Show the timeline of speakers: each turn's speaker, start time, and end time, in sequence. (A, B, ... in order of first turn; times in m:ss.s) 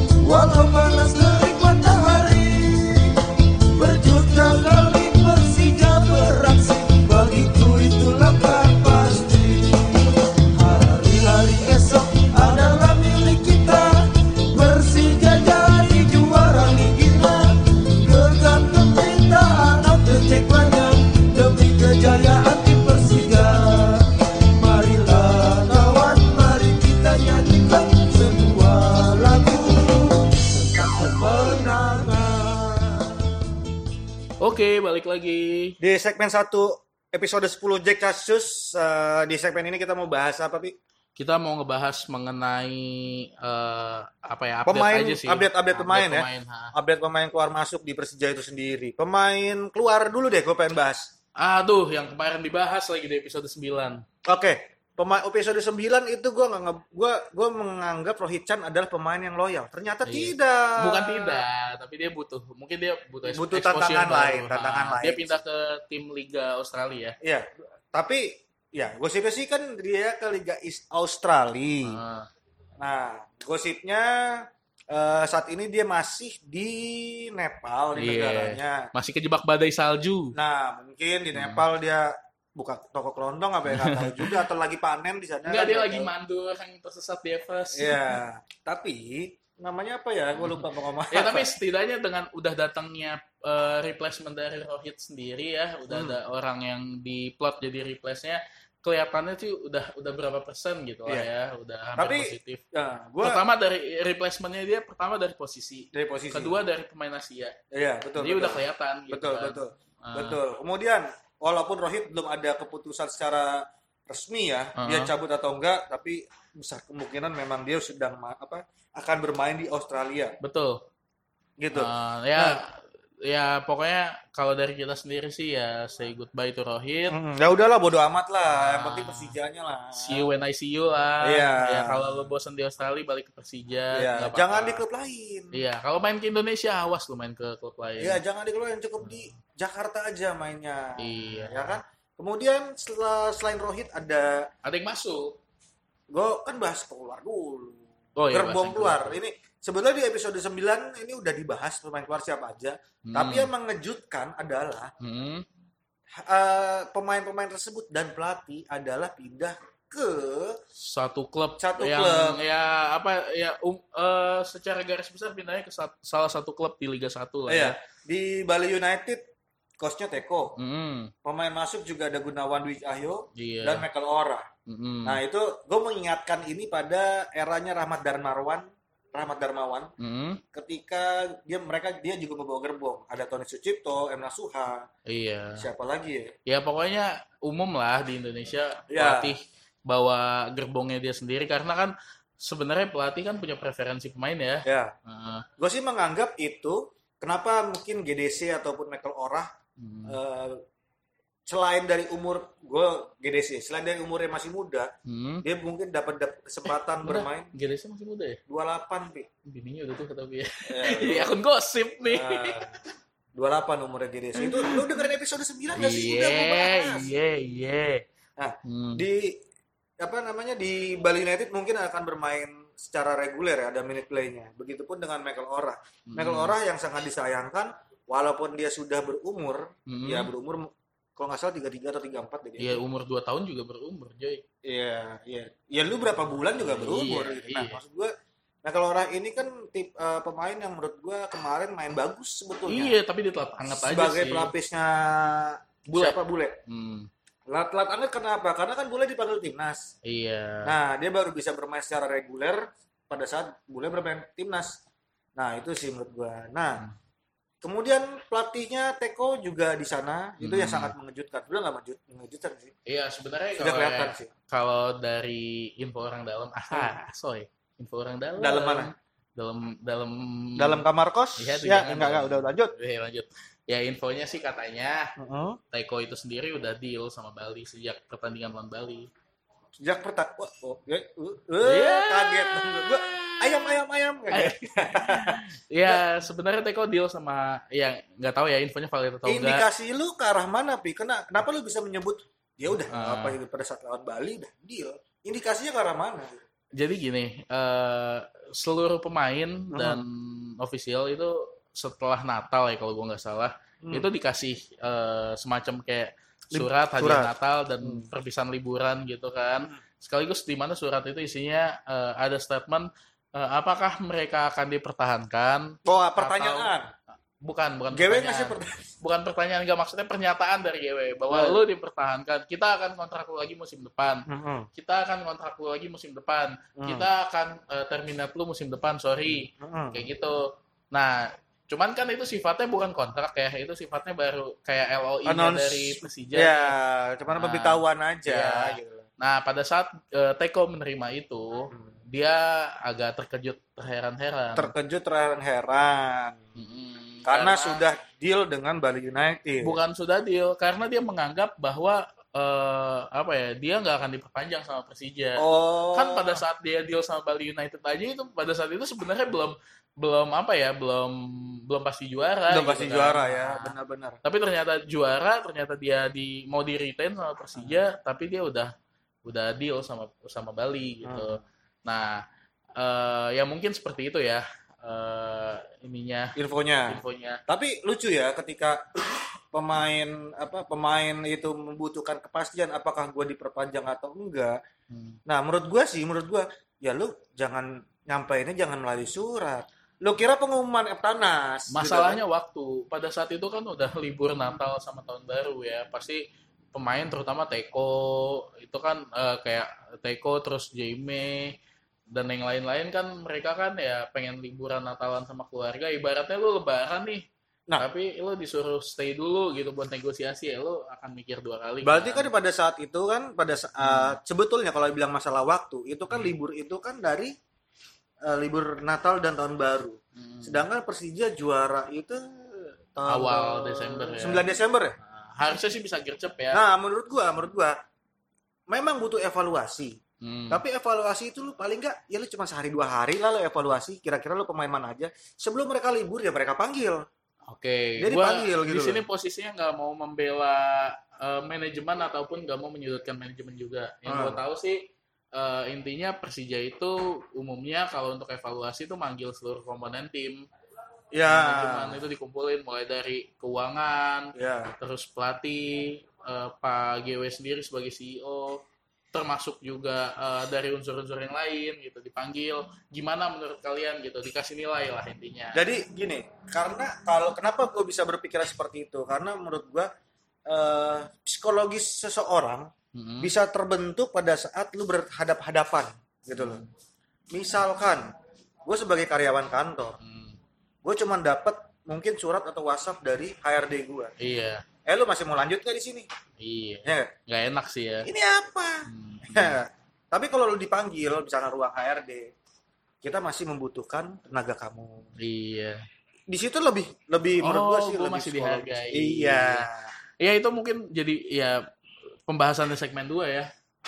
0:00.2-0:33.3 A
0:34.4-0:35.8 B
0:35.8-0:40.8 C
0:41.2-0:46.7 B
0:44.6-0:51.1 C
0:51.4-0:54.0 B
0:54.2-1:01.4 C
1:00.0-1:07.2 B
1:03.3-1:05.4 C
1:07.2-1:12.0 C
1:11.8-1:12.3 B
1:12.8-1:18.9 C
1:18.0-1:20.3 B
1:20.3-1:26.1 C
1:21.3-1:21.6 B
1:23.7-1:24.4 B
1:25.4-1:28.1 B
1:27.7-1:31.5 C
1:30.4-1:42.6 B
1:35.9-1:36.2 C
1:42.0-1:43.4 C
1:43.2-1:47.6 B
1:45.9-1:46.6 C
1:47.7-2:00.4 C
1:48.2-1:50.4 B
1:54.8-1:55.1 B
2:00.4-2:00.8 B
2:01.6-2:02.6 C
2:01.7-2:07.1 B
2:07.1-2:10.3 C
2:08.5-2:09.3 B
2:09.9-2:14.8 B
2:11.2-2:12.1 C
2:13.9-2:15.6 C
2:15.5-2:18.2 B
2:18.0-2:24.5 C
2:21.0-2:21.8 B
2:24.6-2:25.4 B
2:26.1-2:34.9 C
2:28.2-2:29.2 B
2:33.0-2:33.5 B
2:35.0-2:35.4 B
2:36.2-2:40.6 C
2:40.8-2:47.8 B
2:41.6-2:42.4 C
2:47.5-2:49.2 C
2:49.8-2:50.6 C
2:50.6-2:51.1 B
2:51.2-2:54.5 C
2:53.3-2:53.9 B
2:54.7-2:55.2 B
2:55.0-2:59.9 C
3:00.0-3:00.4 B
3:00.5-3:04.9 C
3:05.0-3:05.6 B
3:05.6-3:06.3 C
3:06.4-3:15.4 B
3:08.9-3:09.4 C
3:14.6-3:14.9 C
3:15.6-3:19.5 C
3:19.8-3:20.2 B
3:20.1-3:20.6 C
3:21.4-3:24.9 C
3:25.0-3:25.4 B
3:25.4-3:27.5 C
3:27.0-3:28.4 B
3:28.5-3:29.3 C
3:29.4-3:32.8 B
3:30.6-3:31.3 C
3:32.0-3:32.8 C
3:33.3-3:37.1 C
3:34.4-3:35.0 B
3:35.7-3:38.0 B
3:38.4-3:39.4 C
3:38.6-3:39.0 B
3:40.0-3:52.8 C
3:46.1-3:46.5 B
3:49.9-3:50.3 B
3:52.6-3:54.4 B
3:54.6-3:58.1 C
3:56.6-3:57.8 B
3:58.6-4:02.9 C
4:02.7-4:04.5 B
4:03.7-4:06.6 C
4:05.9-4:07.1 B
4:07.5-4:09.9 C
4:10.0-4:10.7 B
4:10.6-4:14.8 C
4:15.4-4:16.8 C
4:17.6-4:22.7 C
4:20.4-4:20.9 B
4:22.8-4:30.8 B
4:23.6-4:24.3 C
4:28.4-4:28.9 C
4:30.6-4:32.7 C
4:31.4-4:35.1 B
4:35.2-4:35.6 C
4:35.7-4:39.1 B
4:39.8-4:46.0 C
4:41.6-4:49.6 B
4:49.2-4:56.4 C
4:52.9-4:53.4 B
4:56.7-5:16.7 B
4:59.7-5:00.0 C
5:06.5-5:08.1 C
5:15.8-5:16.9 C
5:17.4-5:36.8 B
5:17.9-5:18.9 C
5:21.3-5:21.6 C
5:24.3-5:24.7 C
5:26.8-5:27.0 C
5:29.4-5:30.0 C
5:35.2-5:39.0 C
5:37.3-5:44.7 B
5:44.6-5:46.4 C
5:46.6-5:47.8 B
5:47.2-5:49.7 C
5:49.6-6:08.7 B
5:55.4-5:56.4 C
6:02.5-6:04.2 C
6:09.2-6:12.2 B
6:11.0-6:11.4 C
6:12.8-6:16.3 B
6:16.4-6:24.6 C
6:16.9-6:17.4 B
6:24.9-6:25.2 B
6:25.3-6:32.2 C
6:31.7-6:41.6 B
6:42.1-6:47.3 B
6:47.8-6:52.3 B
6:51.8-6:57.3 C
6:53.8-6:54.2 B
6:58.2-7:05.0 C
7:00.2-7:00.6 B
7:03.1-7:04.5 B
7:05.0-7:06.6 B
7:06.5-7:07.8 C
7:08.7-7:10.0 C
7:10.2-7:10.6 B
7:10.5-7:17.0 C
7:17.4-7:30.4 B
7:18.0-7:19.0 C
7:24.0-7:24.4 C
7:31.1-7:32.0 C
7:31.3-7:45.6 B
7:34.3-7:34.7 C
7:45.5-7:49.9 C
7:50.5-7:52.7 C
7:52.9-7:53.3 B
7:53.2-7:56.6 C
7:56.4-7:56.7 B
7:57.3-7:58.1 C
7:58.6-8:00.0 C
8:00.0-8:00.4 B
8:00.8-8:04.1 C
8:04.2-8:04.6 B
8:04.8-8:06.1 C
8:06.4-8:08.1 B
8:06.8-8:07.1 C
8:08.0-8:12.3 C
8:08.9-8:09.6 B
8:13.0-8:15.1 C
8:15.2-8:15.8 B
8:16.3-8:19.9 C
8:17.4-8:19.7 B
8:20.2-8:21.7 B
8:22.2-8:23.5 B